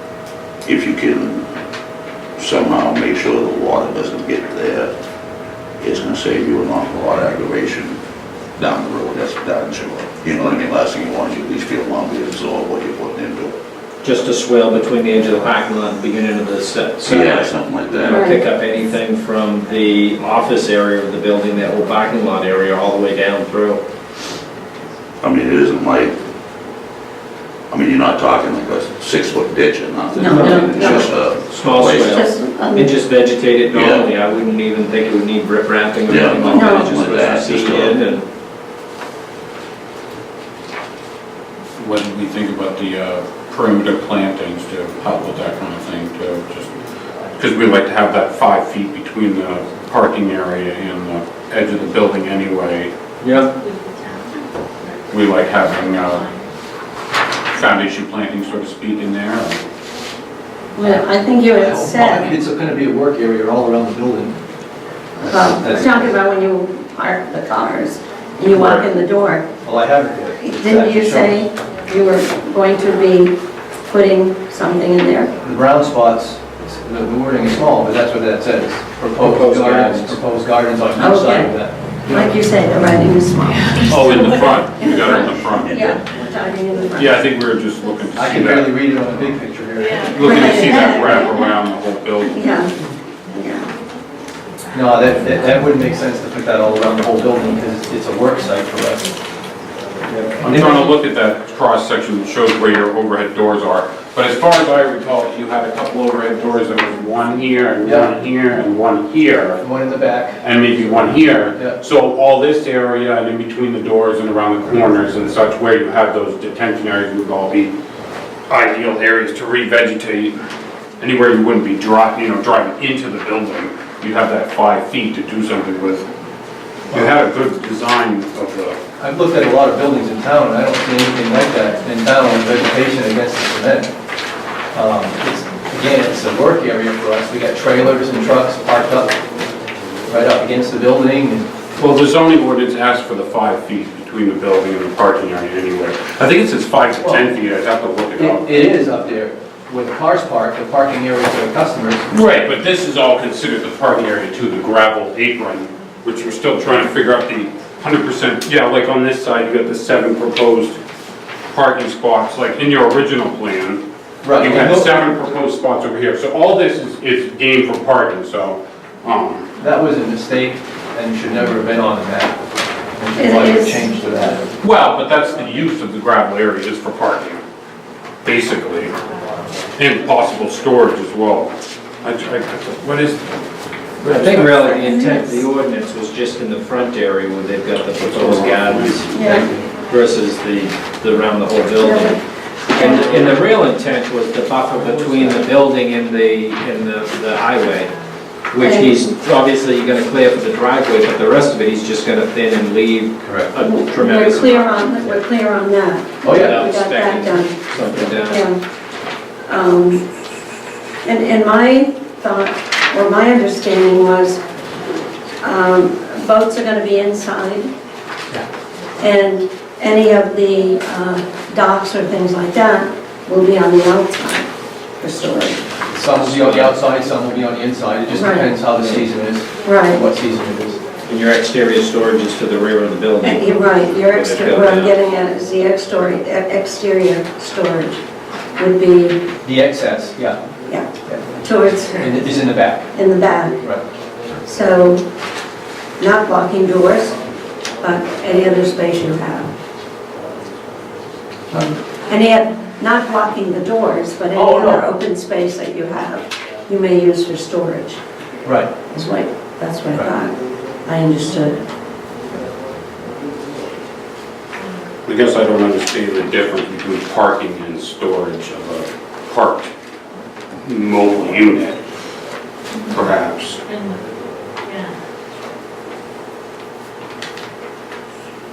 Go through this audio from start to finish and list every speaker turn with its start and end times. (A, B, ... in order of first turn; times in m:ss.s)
0:00.6-0:01.5 A
0:02.4-0:04.9 A
0:05.8-0:08.0 A
0:08.6-0:13.5 A
0:14.0-0:23.8 B
0:17.0-0:18.2 A
0:18.0-0:18.4 C
0:25.2-0:26.2 A
0:27.7-0:32.2 A
0:30.1-0:31.1 C
0:30.2-0:38.3 B
0:31.9-0:32.9 C
0:33.7-0:34.1 A
0:36.0-0:38.0 A
0:36.5-0:36.9 C
0:41.8-0:46.7 D
0:47.4-0:52.9 D
0:53.2-0:53.5 E
0:55.1-0:56.2 D
0:57.5-0:59.6 D
1:00.7-1:02.3 C
1:01.5-1:04.4 E
1:05.2-1:06.2 E
1:05.3-1:09.4 C
1:08.5-1:08.9 D
1:09.6-1:11.4 E
1:10.4-1:13.3 C
1:13.8-1:15.3 C
1:15.4-1:22.3 E
1:19.2-1:20.2 B
1:21.0-1:21.5 C
1:22.1-1:27.2 C
1:23.9-1:26.0 D
1:27.0-1:28.7 D
1:28.1-1:31.2 E
1:30.1-1:32.4 D
1:30.2-1:31.5 C
1:32.2-1:32.7 C
1:33.3-1:33.7 C
1:34.7-1:39.1 E
1:40.1-1:40.4 B
1:40.4-1:49.6 D
1:40.4-1:40.9 E
1:47.8-1:48.1 E
1:49.6-1:50.4 E
1:50.4-1:57.7 D
1:58.5-2:00.4 D
2:01.0-2:06.1 D
2:06.9-2:08.8 D
2:09.0-2:13.9 E
2:14.7-2:19.2 E
2:20.1-2:21.5 E
2:21.7-2:28.5 D
2:27.0-2:27.3 E
2:28.2-2:32.0 E
2:32.1-2:40.8 D
2:41.5-2:43.8 D
2:44.2-2:44.9 E
2:44.4-2:49.5 D
2:49.6-2:52.4 E
2:52.9-2:54.5 E
2:53.2-2:53.8 C
2:54.6-2:57.4 D
2:58.2-2:58.9 D
2:59.8-3:03.3 D
3:04.0-3:12.2 B
3:04.1-3:04.6 D
3:04.6-3:05.4 C
3:08.0-3:09.0 D
3:09.0-3:09.5 C
3:11.8-3:13.1 C
3:12.7-3:17.9 B
3:13.1-3:13.4 D
3:18.5-3:25.2 B
3:18.6-3:19.1 C
3:23.2-3:23.5 E
3:23.6-3:27.6 C
3:26.2-3:26.6 E
3:26.2-3:28.5 B
3:28.2-3:28.6 C
3:29.4-3:30.0 C
3:31.0-3:34.4 C
3:35.4-3:37.7 C
3:39.0-3:45.6 C
3:45.9-3:50.8 E
3:46.2-3:46.7 B
3:48.1-3:48.6 C
3:48.7-3:49.0 B
3:49.6-3:50.0 C
3:51.0-3:54.9 B
3:53.2-3:58.0 C
3:58.6-3:59.3 C
3:59.4-4:00.4 E
4:01.0-4:01.4 E
4:01.4-4:02.2 C
4:01.9-4:02.9 E
4:02.9-4:03.6 C
4:04.4-4:05.0 C
4:06.0-4:07.2 C
4:07.8-4:09.5 C
4:11.5-4:11.8 E
4:12.1-4:18.0 C
4:14.3-4:14.9 E
4:18.4-4:18.7 E
4:18.9-4:21.6 C
4:25.0-4:29.7 D
4:30.6-4:31.8 D
4:32.9-4:33.6 D